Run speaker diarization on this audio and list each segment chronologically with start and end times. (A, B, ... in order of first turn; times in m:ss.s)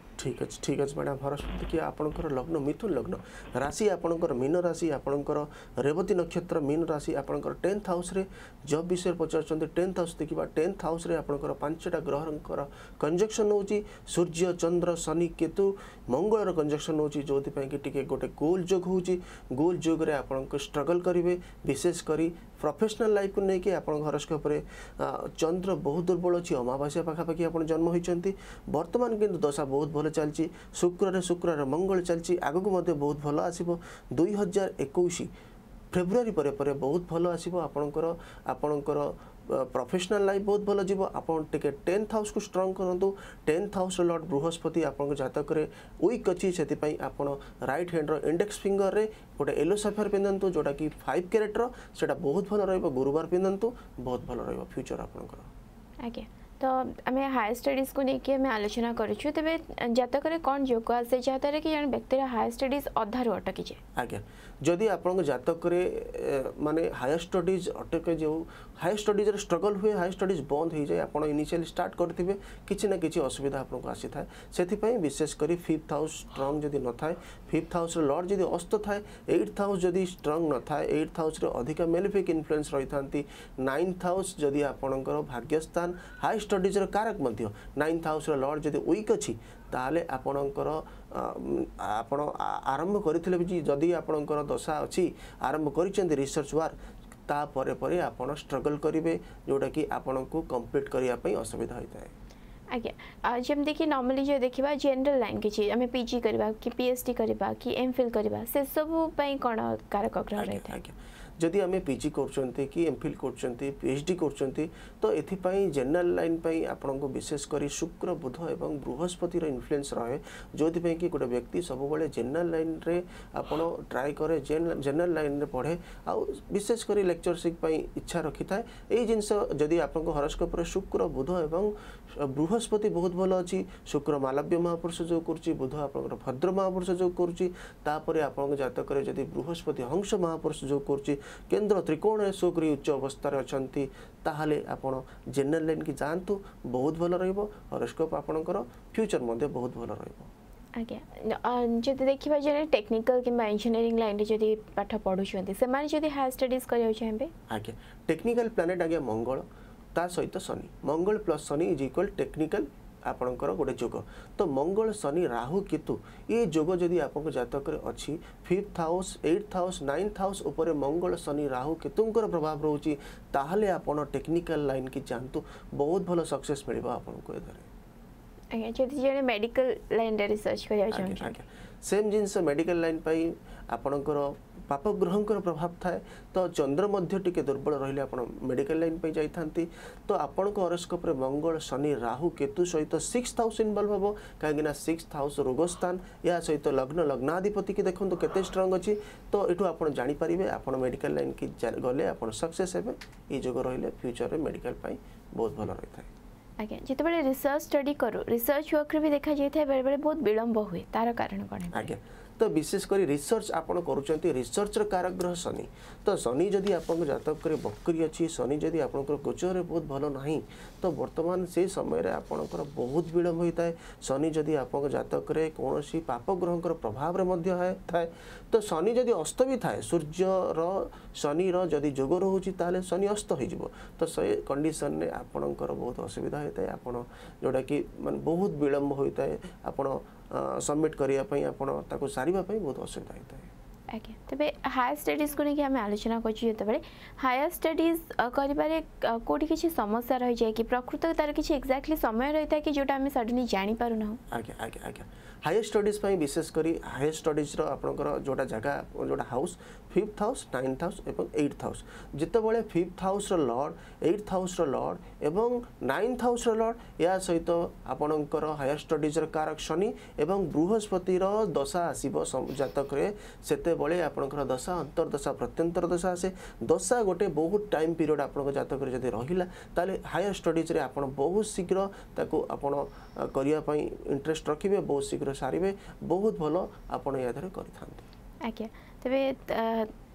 0:00.2-0:35.3 A
0:35.9-0:55.5 A
0:56.0-1:03.8 B
1:04.0-1:36.7 A
1:37.3-1:42.1 A
1:42.7-1:50.8 B
1:50.4-2:30.3 A
2:30.8-2:37.3 B
2:37.5-2:57.7 A
2:58.5-3:01.4 B
3:00.9-3:26.1 A
3:26.6-3:31.9 B
3:31.7-4:03.5 A
4:03.9-4:14.2 B
4:14.3-4:48.0 A
4:48.4-4:49.9 B